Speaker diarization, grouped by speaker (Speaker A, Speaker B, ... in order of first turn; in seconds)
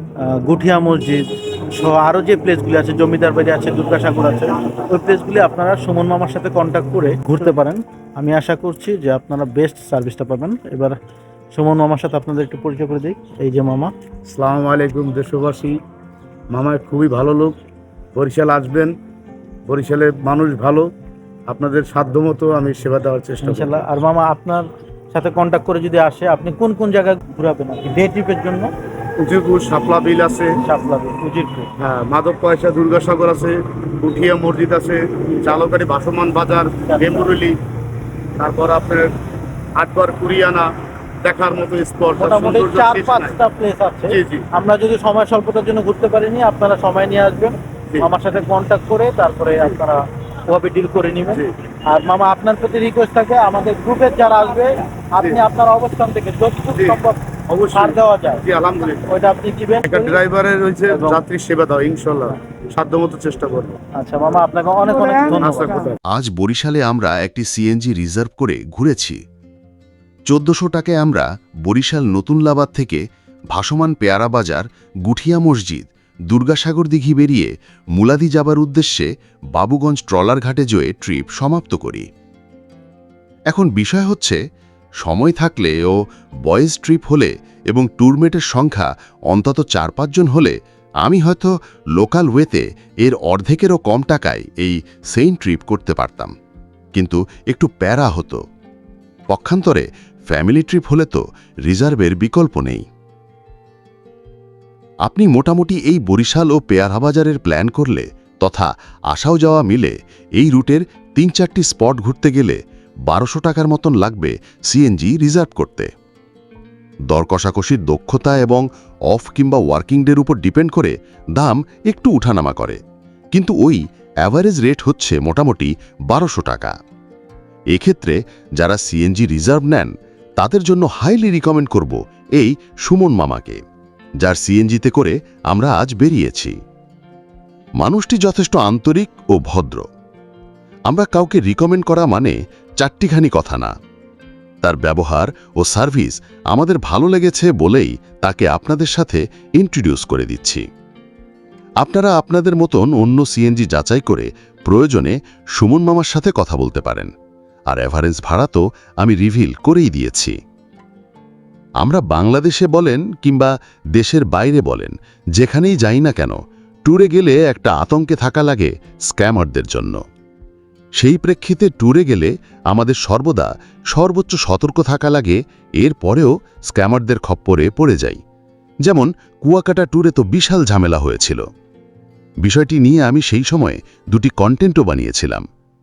Speaker A: 0.2-11.0, 11.5-13.9, 23.4-28.7, 30.6-31.7, 36.9-37.3, 42.2-57.2, 57.7-58.4, 59.1-60.2, 60.9-61.2, 64.0-65.9
Speaker B: 14.3-15.8, 16.5-17.6, 18.1-19.0, 19.7-20.9, 21.5-23.8, 29.2-30.6, 31.8-37.6, 38.4-39.1, 39.8-40.7, 41.2-43.4, 44.1-44.5, 56.8-59.1, 59.8-63.8, 65.3-66.0
Speaker C: 66.1-69.2, 70.3-82.1, 83.5-84.4, 85.0-96.3, 97.0-98.4, 99.3-102.8, 105.0-115.9, 117.1-122.8, 123.3-126.7, 127.7-133.6, 134.2-136.6, 137.8-139.8, 140.9-143.7, 144.6-150.6, 151.8-157.1, 157.7-160.4, 161.8-170.0, 171.0-178.2, 178.8-181.4, 182.4-185.4